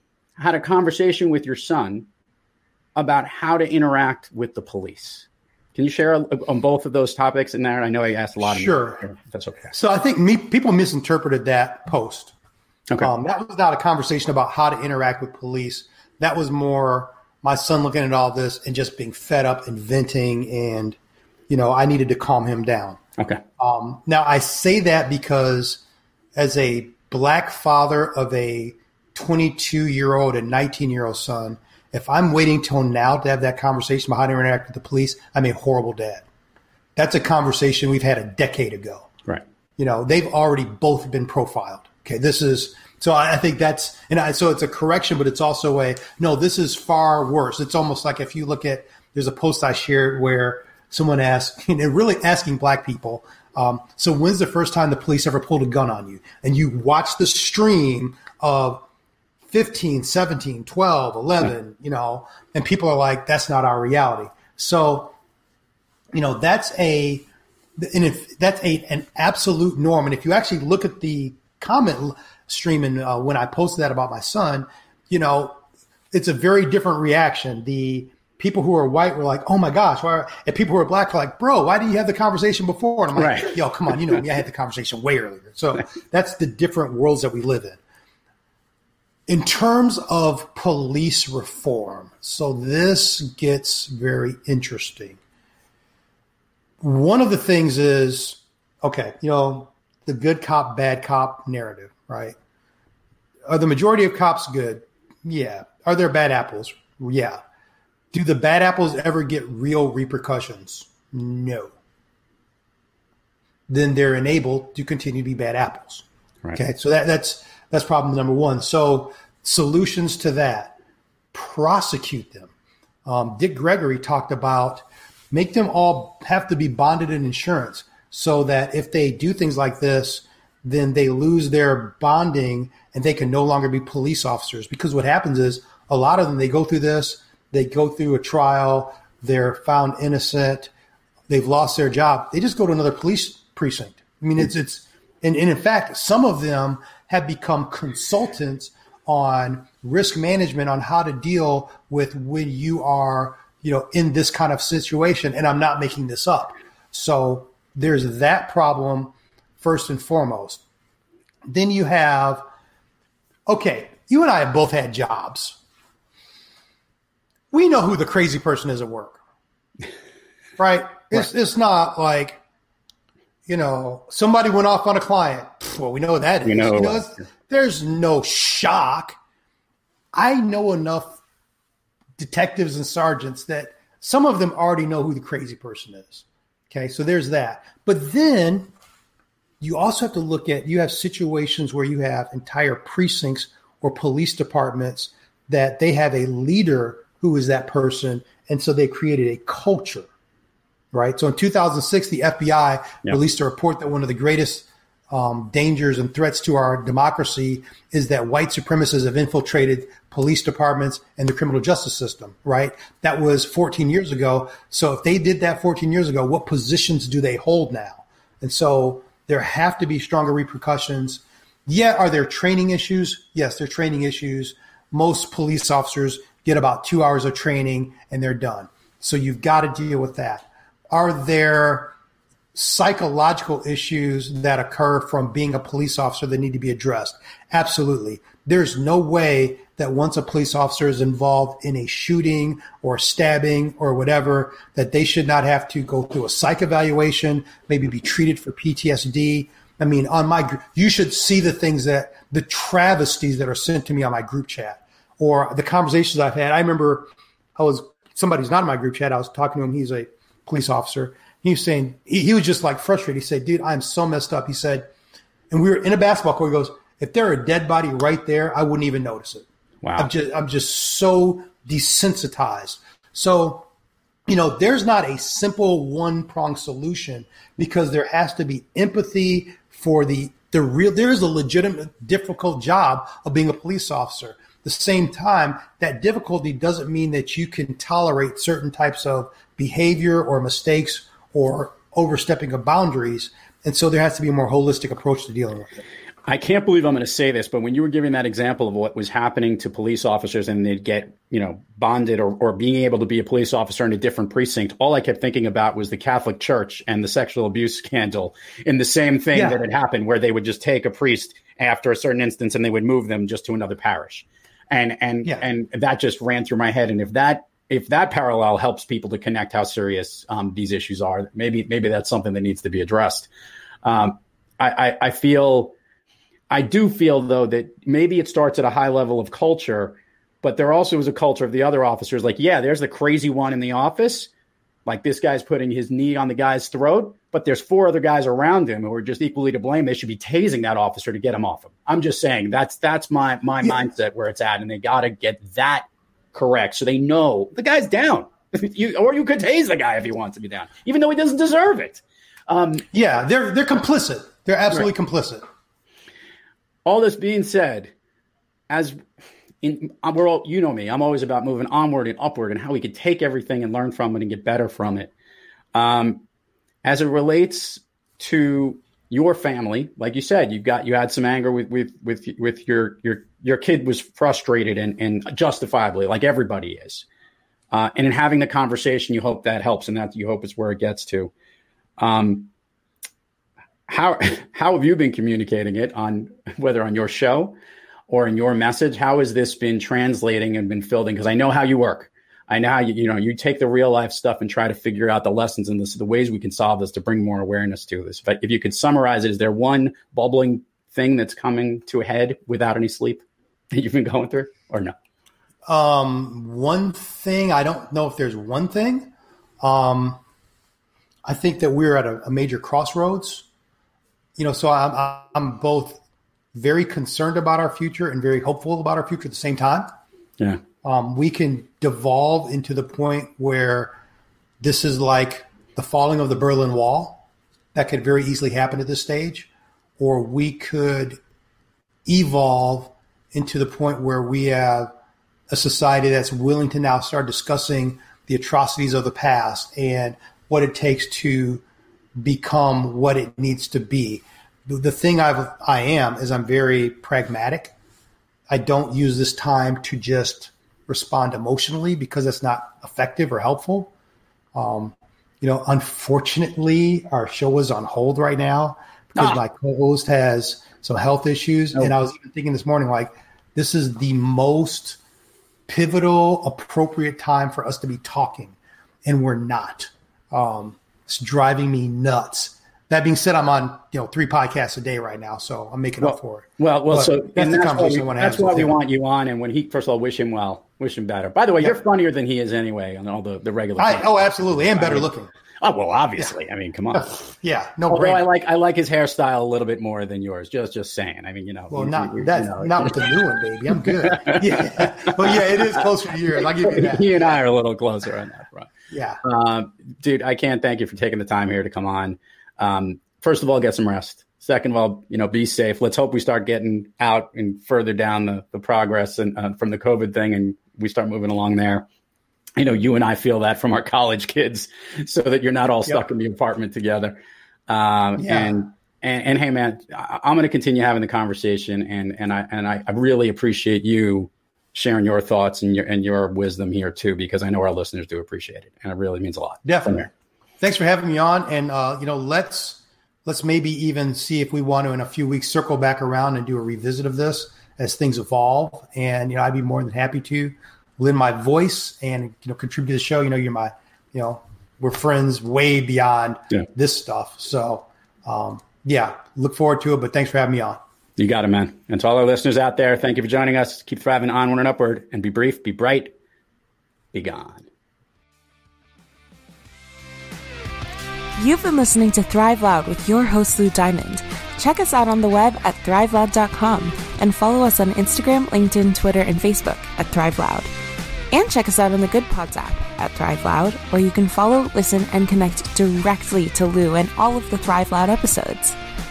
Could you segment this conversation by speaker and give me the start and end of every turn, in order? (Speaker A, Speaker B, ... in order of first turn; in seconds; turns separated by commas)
Speaker A: 0.4-2.1, Speaker A: 3.0-9.7, Speaker B: 8.4-9.1, Speaker B: 9.7-12.3, Speaker B: 13.0-21.0, Speaker B: 21.5-23.0, Speaker B: 23.6-25.8, Speaker B: 26.3-36.2, Speaker B: 37.0-39.1, Speaker B: 39.8-58.8, Speaker B: 59.5-65.1, Speaker B: 66.1-75.6, Speaker B: 76.1-87.8, Speaker A: 83.1-83.5, Speaker B: 89.3-95.2, Speaker B: 96.8-102.3, Speaker B: 103.5-107.4, Speaker B: 108.1-111.7, Speaker B: 113.7-120.7, Speaker B: 121.3-122.5, Speaker B: 123.0-140.7, Speaker B: 141.3-160.6, Speaker B: 161.5-162.4, Speaker B: 163.5-165.6, Speaker B: 167.5-169.2, Speaker B: 170.6-172.4, Speaker B: 173.5-179.2, Speaker A: 176.4-177.2, Speaker B: 180.1-181.2, Speaker B: 182.2-188.7, Speaker B: 189.6-200.1, Speaker B: 200.9-231.9, Speaker B: 232.5-264.9, Speaker B: 265.5-269.4, Speaker A: 269.8-270.1, Speaker B: 270.0-273.7, Speaker B: 274.3-295.8, Speaker A: 296.3-323.3, Speaker B: 309.3-309.6, Speaker A: 323.8-325.7, Speaker A: 326.5-334.3, Speaker A: 334.9-352.8, Speaker B: 352.9-355.4, Speaker A: 356.8-357.9, Speaker A: 358.7-359.0, Speaker A: 359.6-365.1, Speaker A: 365.7-366.2, Speaker A: 366.8-377.0, Speaker A: 377.7-381.3, Speaker A: 382.0-382.5, Speaker A: 383.9-387.6, Speaker A: 388.1-404.9, Speaker B: 405.6-410.2, Speaker B: 411.2-413.4, Speaker B: 414.4-416.0, Speaker B: 416.5-419.9, Speaker B: 420.8-423.9, Speaker B: 424.6-429.5, Speaker B: 430.0-431.2, Speaker B: 432.0-434.9, Speaker B: 435.5-441.6, Speaker B: 442.2-447.7, Speaker B: 448.5-453.9, Speaker B: 454.5-465.0, Speaker B: 465.7-478.7, Speaker A: 476.0-485.1, Speaker B: 483.8-485.3, Speaker A: 485.6-487.2, Speaker B: 486.9-488.2, Speaker A: 487.9-493.1, Speaker B: 491.7-497.1, Speaker A: 493.9-495.5, Speaker A: 496.6-498.7, Speaker B: 498.9-499.2, Speaker A: 499.2-511.9, Speaker A: 512.6-517.2, Speaker A: 517.7-530.1, Speaker B: 518.2-518.6, Speaker B: 529.6-530.1, Speaker B: 530.6-550.8, Speaker A: 551.2-556.1, Speaker A: 557.1-557.7, Speaker C: 561.4-570.7, Speaker C: 571.3-578.8